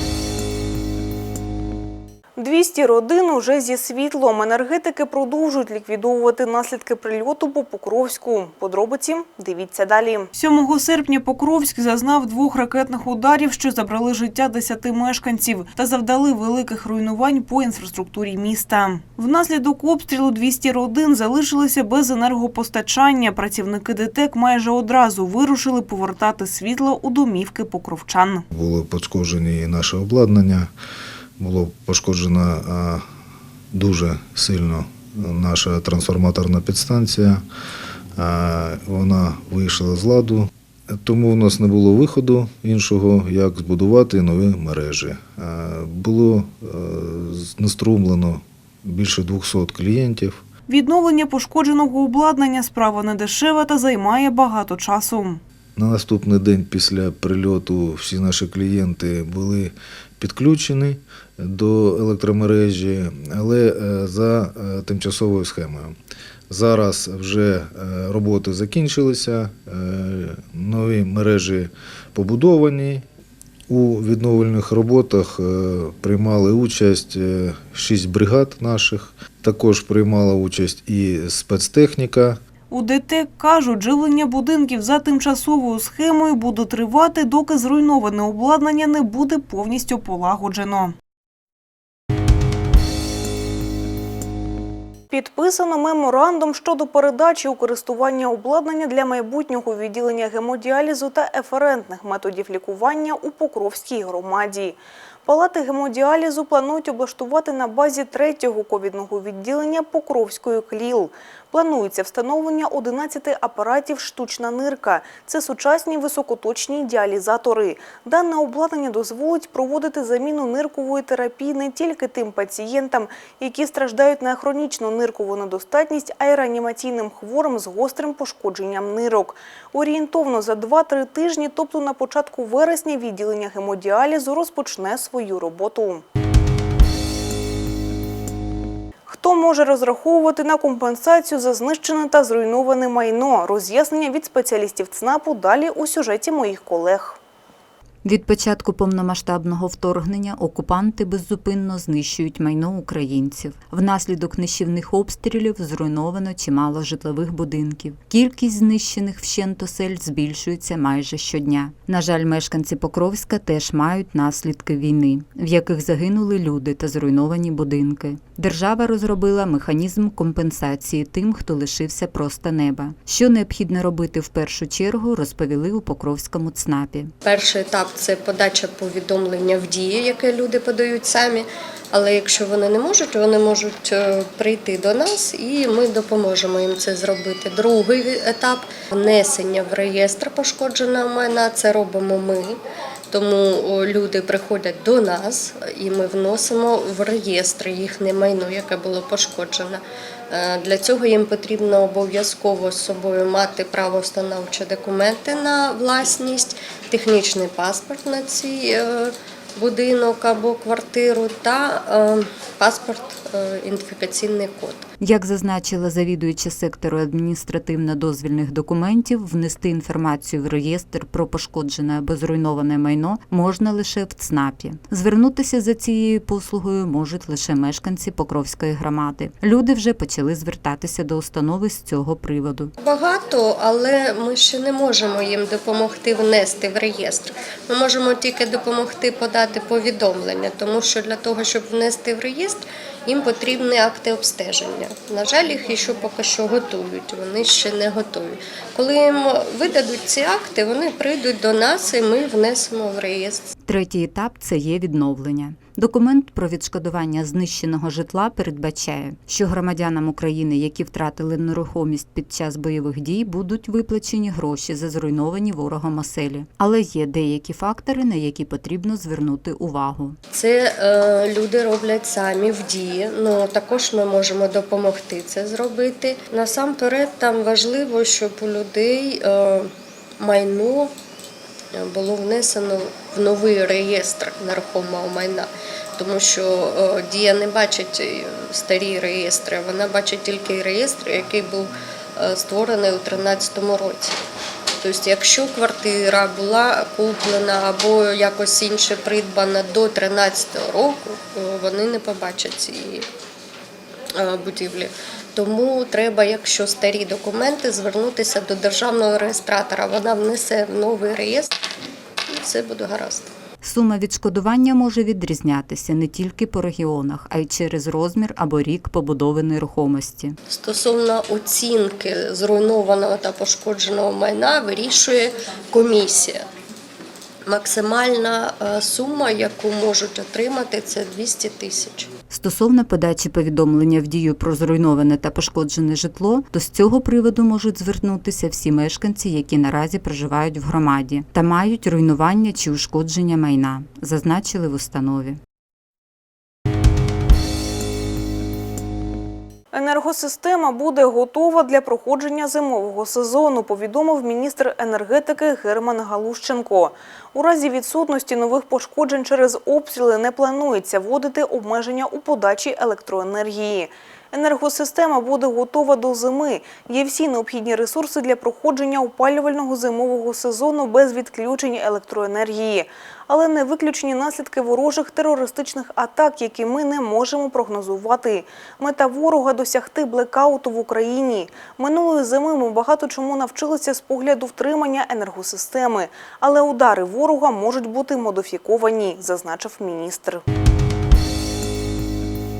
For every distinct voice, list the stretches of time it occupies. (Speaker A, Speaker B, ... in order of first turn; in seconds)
Speaker A: 2.4-28.4, 50.7-55.4, 82.7-91.0, 95.1-136.0, 139.1-147.2, 349.7-390.4
Speaker B: 28.5-30.7, 31.4-33.0, 33.7-37.4, 38.2-50.4, 55.8-66.0, 66.5-73.0, 73.7-82.4
Speaker C: 148.1-177.1, 215.0-232.7, 253.7-270.2, 313.6-320.4, 332.3-345.4
Speaker D: 177.2-192.6, 193.1-214.9, 232.8-253.5, 270.3-280.9, 281.8-294.2, 294.8-303.1, 304.2-311.6, 312.3-313.3, 320.5-326.4, 327.5-332.1